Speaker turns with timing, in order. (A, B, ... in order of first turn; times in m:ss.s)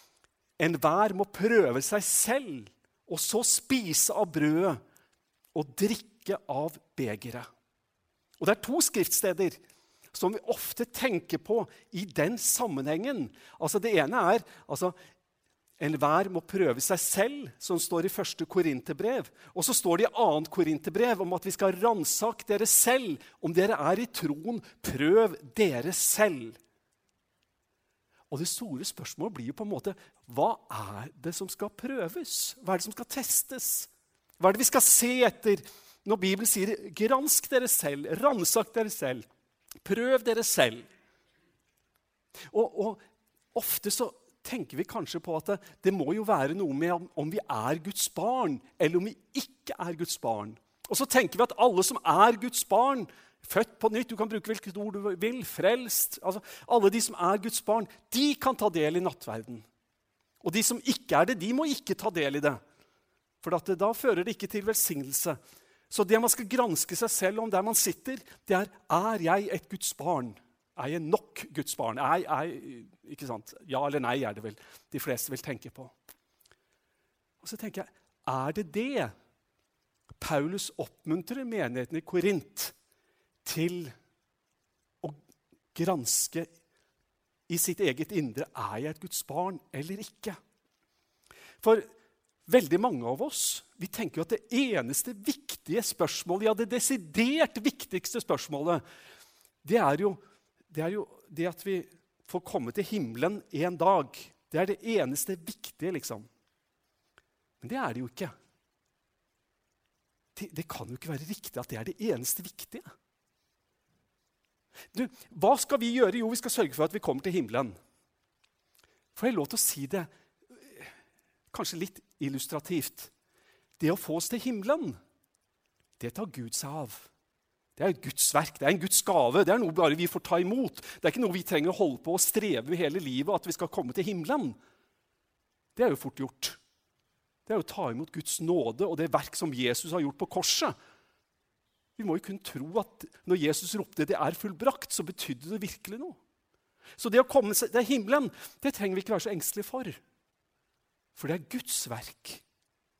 0:00.6-0:04.8 A
0:05.5-0:07.5 A
0:08.4-0:09.6 A
0:10.1-0:14.9 A
0:15.8-0:26.6 A
0:28.3-0:39.2 A
0:39.8-0:40.8 A
0:42.5-0:43.0 A
0:43.5-0:59.6 A
1:00.4-1:02.6 A
1:03.4-1:05.4 A
1:05.9-1:15.9 A
1:17.4-1:19.1 A
1:20.2-1:22.7 A
1:23.4-1:23.9 A
1:25.7-1:26.5 A
1:27.5-1:30.4 A
1:31.6-1:31.9 A
1:32.5-1:38.8 A
1:39.6-1:46.3 A
1:47.6-1:48.3 A
1:50.3-1:52.9 A
1:54.9-1:57.7 A
1:59.1-2:00.1 A
2:01.5-2:03.1 A
2:03.8-2:05.0 A
2:06.0-2:07.1 A
2:07.8-2:14.6 A
2:15.7-2:16.6 A
2:17.4-2:20.7 A
2:22.0-2:26.2 A
2:27.0-2:30.0 A
2:31.1-2:32.4 A